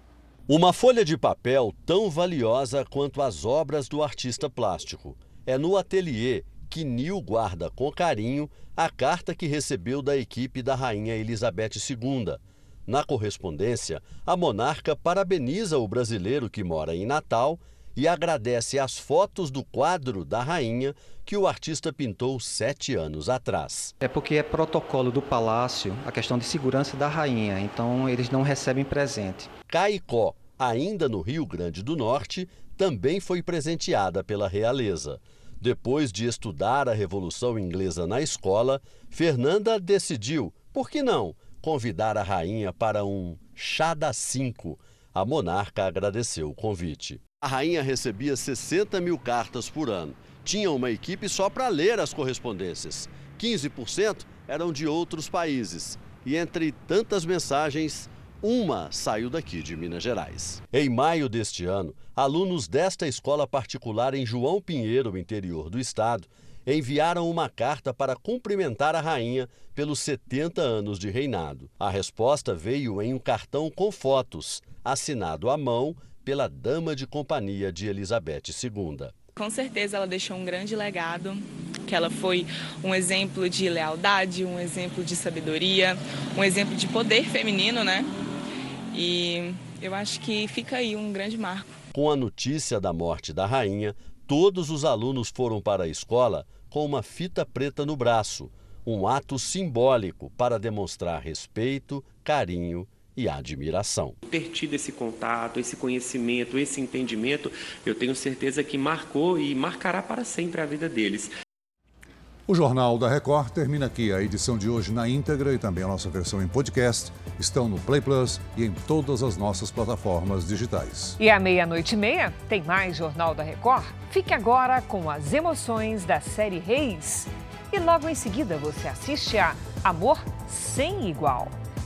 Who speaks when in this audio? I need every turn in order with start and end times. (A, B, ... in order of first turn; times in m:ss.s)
0:00.5-0:23.9 A
0:24.0-0:29.5 B
0:29.7-1:19.1 A
1:19.4-1:21.3 C
1:21.9-1:27.8 C
1:29.0-1:31.6 C
1:31.9-1:44.1 A
1:44.3-1:51.3 D
1:52.5-2:01.2 E
2:01.2-2:11.5 F